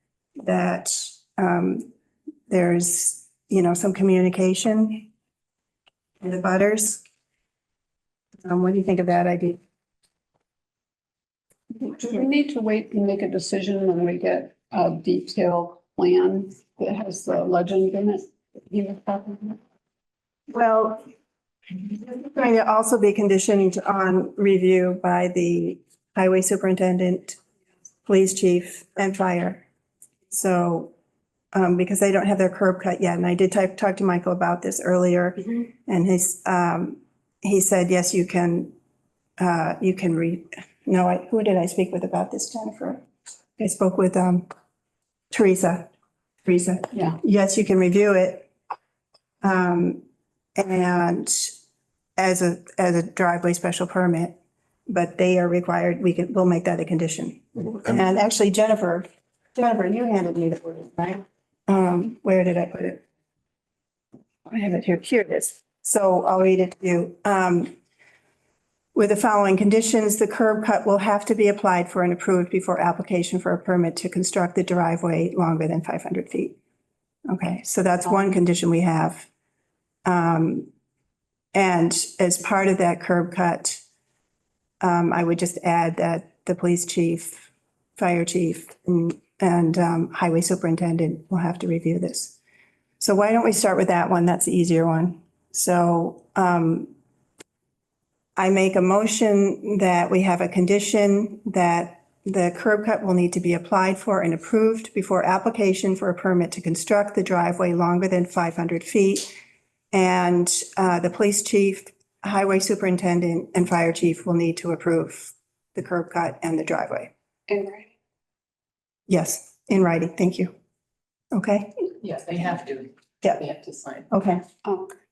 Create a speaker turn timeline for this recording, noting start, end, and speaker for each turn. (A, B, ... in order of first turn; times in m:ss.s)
0:00.4-0:01.9 A
0:02.5-0:05.1 A
0:06.2-0:07.0 A
0:08.4-0:09.6 A
0:11.9-0:19.6 B
0:20.5-0:21.0 A
0:21.8-0:27.4 A
0:28.1-0:29.6 A
0:30.3-0:30.9 A
0:31.5-0:38.7 A
0:39.4-0:43.0 A
0:43.6-0:44.5 A
0:45.3-0:45.9 A
0:46.4-0:48.5 A
0:49.4-0:50.0 A
0:50.6-0:51.5 A
0:52.2-0:54.4 A
0:54.9-1:03.0 A
1:04.5-1:07.7 A
1:09.0-1:16.6 A
1:17.3-1:19.3 A
1:20.0-1:20.7 A
1:21.5-1:23.8 A
1:24.8-1:32.4 A
1:33.0-1:36.9 A
1:38.4-1:49.3 A
1:49.9-1:57.1 A
1:57.5-1:57.9 B
1:59.1-2:00.5 A
2:01.3-2:01.8 A
2:02.0-2:04.0 C
2:04.1-2:04.4 A
2:04.6-2:04.9 B